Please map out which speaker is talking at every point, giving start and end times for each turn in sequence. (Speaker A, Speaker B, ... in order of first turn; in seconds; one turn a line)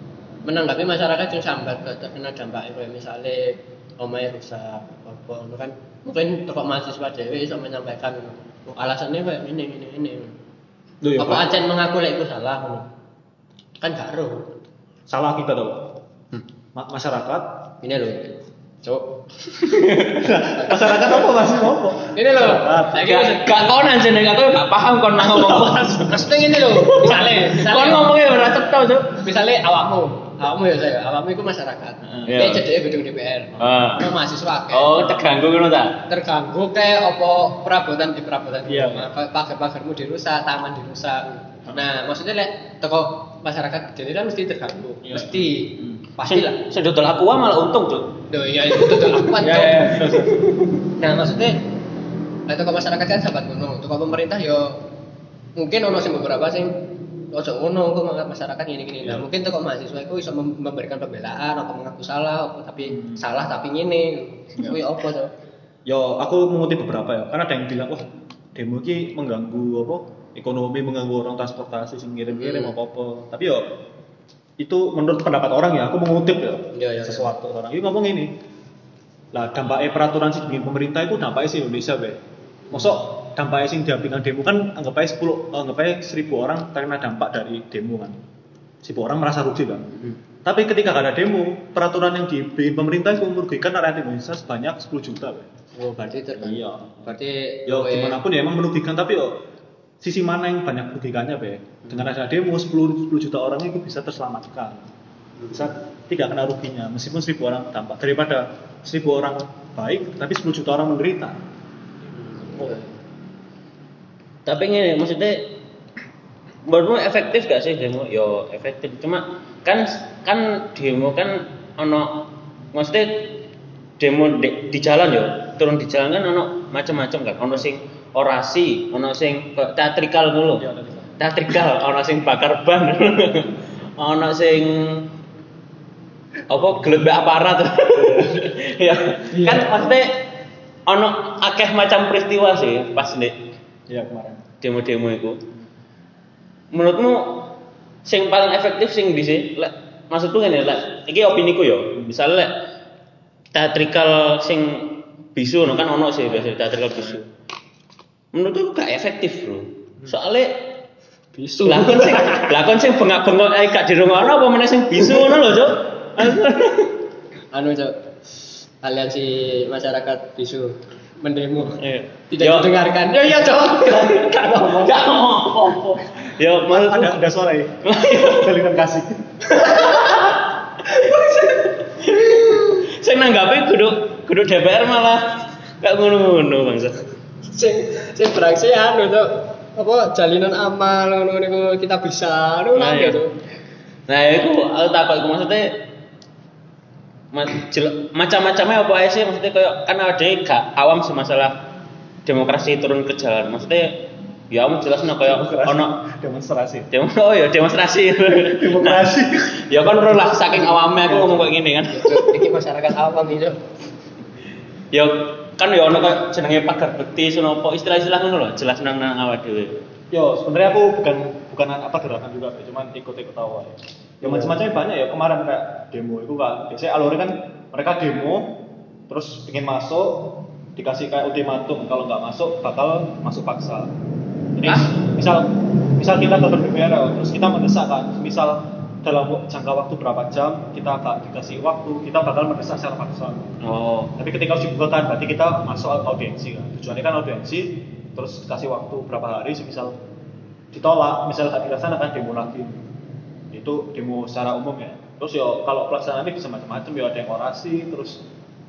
Speaker A: 0.5-10.4
Speaker B: 11.0-11.5
Speaker A: 11.2-12.9
Speaker A: 13.8-14.5
Speaker B: 15.1-16.0
Speaker B: 16.8-17.8
Speaker A: 17.8-21.6
Speaker C: 19.6-20.3
Speaker B: 20.2-23.1
Speaker A: 22.1-23.5
Speaker C: 23.0-29.2
Speaker B: 25.4-25.7
Speaker A: 26.1-28.2
Speaker A: 29.1-35.3
Speaker C: 32.1-32.6
Speaker C: 33.6-34.1
Speaker C: 34.7-36.0
Speaker A: 36.1-46.6
Speaker B: 38.7-39.0
Speaker C: 46.2-48.2
Speaker A: 48.3-50.2
Speaker C: 48.7-49.3
Speaker B: 49.4-50.7
Speaker A: 50.9-51.6
Speaker A: 52.5-54.8
Speaker A: 55.6-65.3
Speaker B: 62.9-63.2
Speaker B: 65.9-73.7
Speaker A: 72.3-72.8
Speaker B: 74.6-78.3
Speaker A: 76.7-77.3
Speaker B: 79.3-88.2
Speaker B: 88.8-95.5
Speaker A: 95.8-98.2
Speaker B: 96.4-99.4
Speaker B: 100.0-104.8
Speaker A: 105.4-105.7
Speaker B: 105.5-111.4
Speaker A: 112.1-112.9
Speaker C: 114.5-115.5
Speaker C: 116.6-123.4
Speaker C: 124.0-130.7
Speaker B: 130.6-131.1
Speaker C: 131.2-135.1
Speaker C: 136.5-140.2
Speaker B: 137.9-138.5
Speaker B: 139.3-139.9
Speaker A: 139.4-139.6
Speaker C: 140.9-143.4
Speaker B: 143.9-144.5
Speaker C: 144.6-145.4
Speaker C: 146.7-152.6
Speaker C: 153.5-157.3
Speaker C: 158.3-160.7
Speaker A: 161.3-162.5
Speaker C: 161.6-167.0
Speaker A: 167.5-168.0
Speaker A: 168.8-175.0
Speaker C: 171.7-172.8
Speaker C: 173.5-177.2
Speaker B: 176.6-179.8
Speaker C: 177.8-178.6
Speaker A: 179.6-180.3
Speaker C: 179.8-181.2
Speaker A: 180.8-182.8
Speaker C: 181.8-187.1
Speaker A: 187.4-193.3
Speaker C: 192.8-193.2
Speaker C: 194.1-195.8
Speaker C: 197.3-201.7
Speaker C: 202.3-206.0
Speaker B: 205.1-206.9
Speaker C: 206.9-209.1
Speaker B: 208.2-210.4
Speaker C: 209.6-212.5
Speaker A: 210.5-213.6
Speaker C: 214.9-219.8
Speaker B: 220.1-233.9
Speaker B: 234.6-243.6
Speaker C: 234.7-234.9
Speaker C: 243.6-244.1
Speaker B: 244.2-250.0
Speaker B: 250.7-252.8
Speaker B: 253.5-258.3